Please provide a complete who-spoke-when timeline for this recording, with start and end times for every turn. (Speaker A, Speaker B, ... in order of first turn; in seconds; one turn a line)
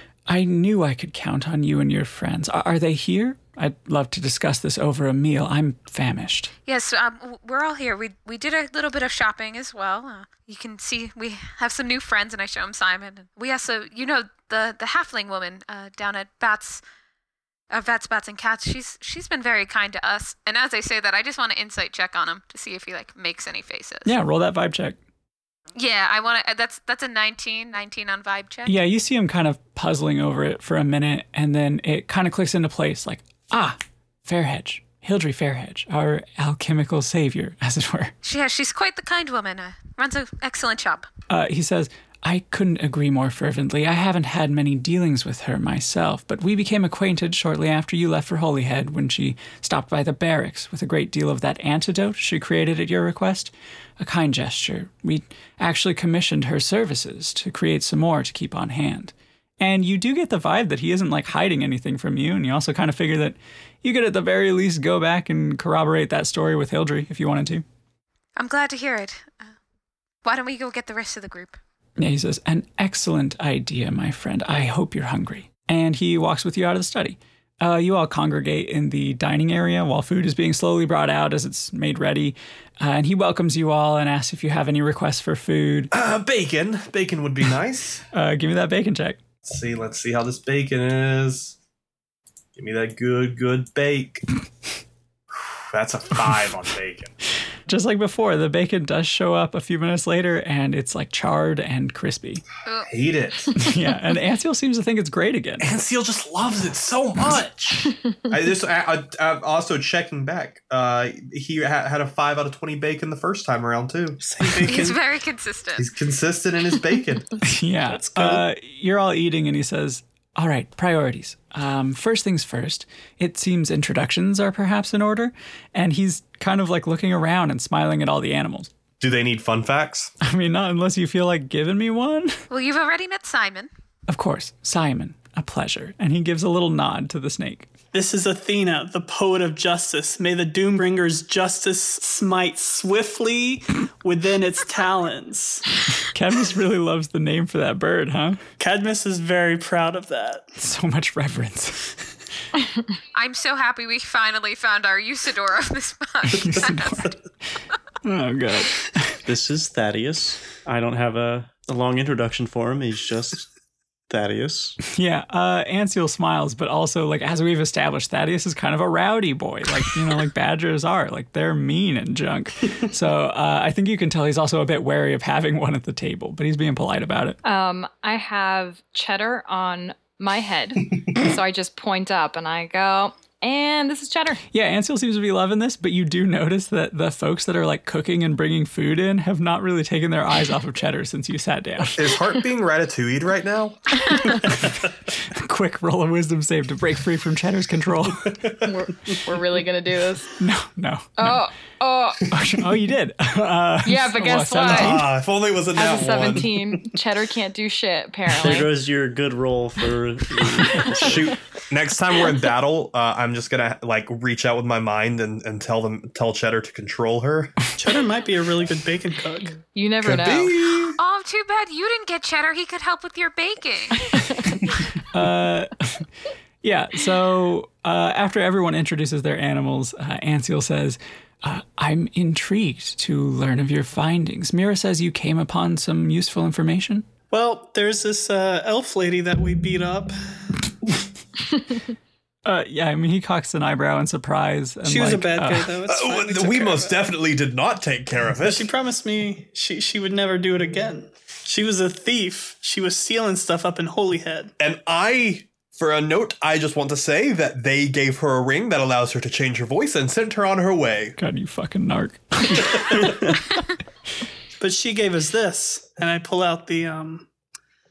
Speaker A: 0.3-6.5
Speaker B: 6.7-16.8
Speaker B: 17.7-24.1
Speaker A: 24.1-25.0
Speaker B: 25.8-28.7
Speaker A: 28.6-38.1
Speaker B: 38.2-41.1
Speaker A: 41.3-67.6
Speaker B: 68.4-69.5
Speaker B: 70.2-71.6
Speaker A: 72.0-85.9
Speaker C: 85.9-88.0
Speaker A: 88.1-89.2
Speaker C: 89.4-91.5
Speaker C: 92.5-94.2
Speaker C: 95.3-97.1
Speaker A: 97.7-102.4
Speaker C: 102.8-103.5
Speaker A: 103.5-105.7
Speaker C: 105.6-114.2
Speaker D: 114.2-115.0
Speaker B: 114.7-115.9
Speaker C: 115.8-117.3
Speaker A: 117.4-128.7
Speaker D: 117.9-118.4
Speaker C: 129.0-130.1
Speaker A: 130.2-132.4
Speaker B: 132.5-133.7
Speaker A: 134.1-137.7
Speaker D: 137.9-145.6
Speaker A: 146.0-148.4
Speaker D: 148.6-150.4
Speaker A: 150.6-151.9
Speaker B: 153.1-157.1
Speaker A: 156.3-157.1
Speaker A: 158.0-159.2
Speaker E: 159.2-163.5
Speaker E: 164.1-164.8
Speaker A: 164.9-177.4
Speaker F: 177.4-184.4
Speaker A: 184.5-192.0
Speaker C: 191.9-194.0
Speaker A: 194.5-198.4
Speaker C: 198.2-198.7
Speaker F: 198.6-200.3
Speaker A: 200.4-201.4
Speaker F: 201.2-202.3
Speaker A: 202.3-205.1
Speaker F: 203.8-205.1
Speaker C: 204.6-206.6
Speaker F: 205.7-208.8
Speaker E: 208.4-211.3
Speaker F: 210.7-211.1
Speaker C: 211.0-217.6
Speaker D: 217.8-219.6
Speaker F: 219.7-220.6
Speaker C: 220.0-221.0
Speaker B: 221.0-224.5
Speaker A: 225.1-226.1
Speaker A: 226.6-237.1
Speaker D: 237.3-240.1
Speaker A: 242.4-245.8
Speaker D: 244.9-247.0
Speaker C: 245.9-248.7
Speaker D: 248.4-254.5
Speaker C: 254.6-261.2
Speaker A: 261.2-263.3
Speaker D: 264.6-267.3